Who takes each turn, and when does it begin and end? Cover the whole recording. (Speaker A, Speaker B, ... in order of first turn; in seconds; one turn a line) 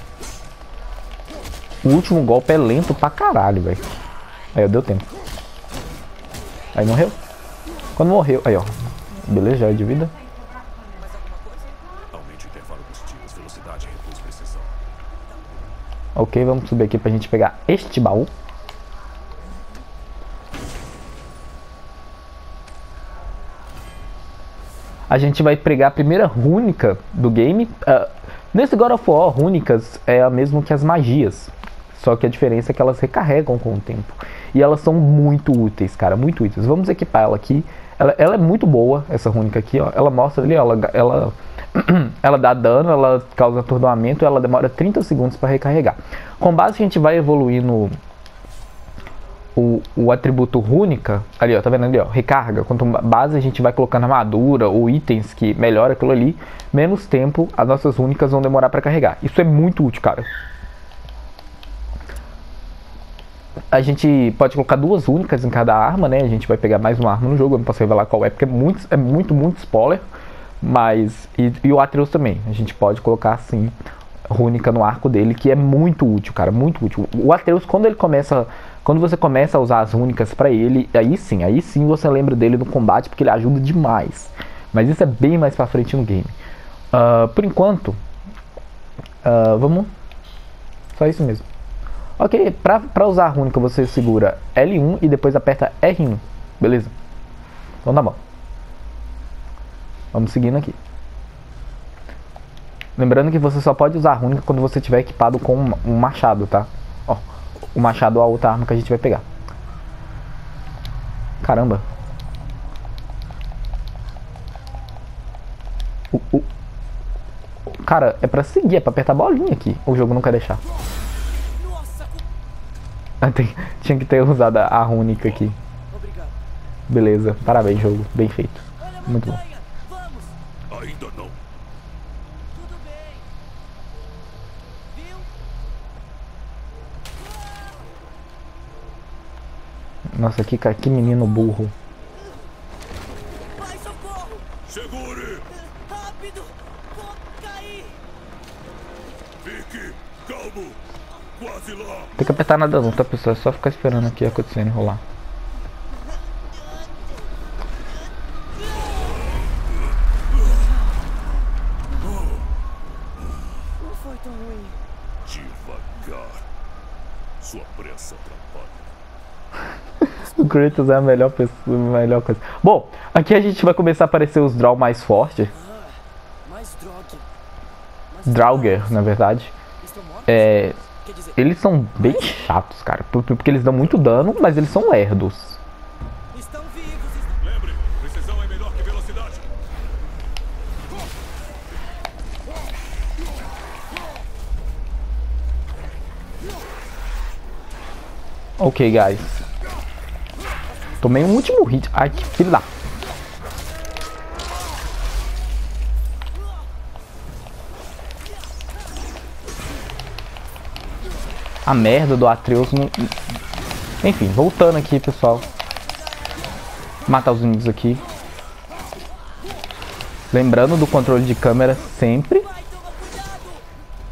Speaker A: 1.8-3.8
Speaker A: 4.5-5.1
Speaker A: 6.7-7.2
Speaker A: 8.0-10.1
Speaker B: 10.9-11.9
Speaker C: 12.1-14.8
Speaker A: 16.1-18.3
Speaker A: 25.1-48.0
Speaker A: 49.5-60.3
Speaker A: 63.7-70.0
Speaker A: 70.6-73.7
Speaker A: 74.3-86.3
Speaker A: 86.9-88.0
Speaker A: 89.2-89.9
Speaker A: 90.9-91.4
Speaker A: 92.2-96.9
Speaker A: 97.8-98.2
Speaker A: 100.1-100.8
Speaker A: 103.0-107.2
Speaker A: 107.7-109.2
Speaker A: 111.4-111.8
Speaker A: 116.1-116.5
Speaker A: 117.7-120.6
Speaker B: 121.5-122.2
Speaker A: 123.2-125.5
Speaker B: 125.9-126.3
Speaker A: 126.9-129.4
Speaker B: 128.8-130.3
Speaker C: 130.7-131.4
Speaker B: 132.5-133.2
Speaker B: 134.9-135.3
Speaker A: 140.1-141.7
Speaker B: 143.5-144.5
Speaker C: 144.7-145.5
Speaker B: 145.6-148.0
Speaker C: 149.4-152.1
Speaker A: 152.2-155.0
Speaker B: 160.4-160.7
Speaker B: 163.8-164.8
Speaker C: 165.2-166.4
Speaker C: 167.4-168.9
Speaker A: 170.3-175.5
Speaker B: 175.5-177.3
Speaker B: 178.1-179.0
Speaker A: 178.2-179.5
Speaker B: 179.8-181.4
Speaker A: 180.3-180.8
Speaker A: 181.4-185.6
Speaker B: 186.3-187.4
Speaker C: 187.4-189.5
Speaker A: 198.6-199.4
Speaker A: 201.0-202.7
Speaker A: 211.7-213.1
Speaker A: 214.0-215.4
Speaker A: 217.1-218.0
Speaker A: 220.3-222.5